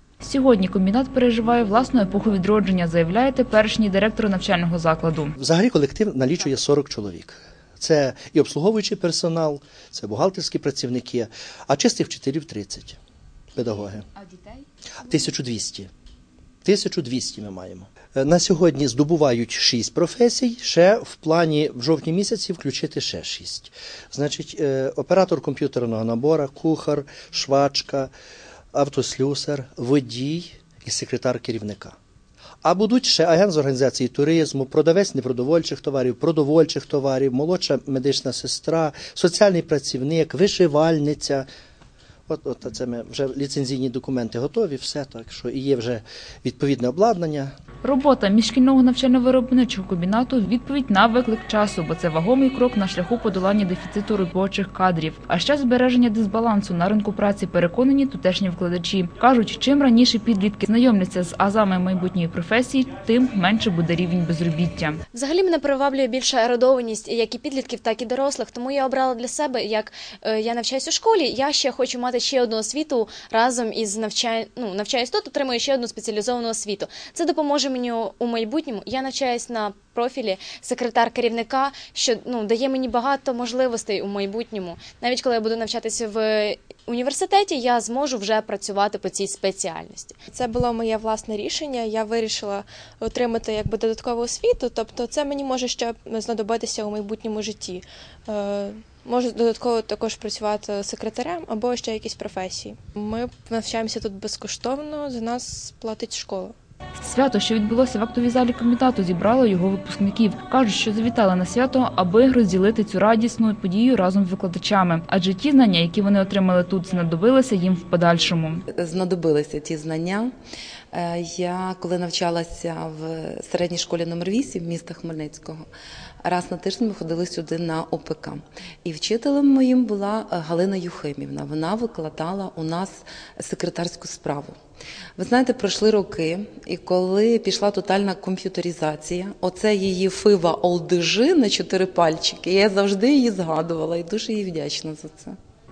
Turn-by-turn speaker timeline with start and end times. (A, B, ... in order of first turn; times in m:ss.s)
0:00.2-0:05.3 A
0:05.4-0:13.0 B
0:13.5-0:14.1 B
0:14.2-0:14.6 A
0:15.0-0:15.9 B
0:16.6-0:28.1 B
0:28.7-0:32.0 B
0:32.6-0:41.5 B
0:42.3-0:47.5 B
0:47.8-1:05.0 A
1:05.1-1:30.2 C
1:30.3-1:46.5 D
1:47.0-1:58.6 A
1:58.7-2:00.3 E
2:00.9-2:05.6 E
2:06.2-2:14.5 E
2:15.2-2:25.4 E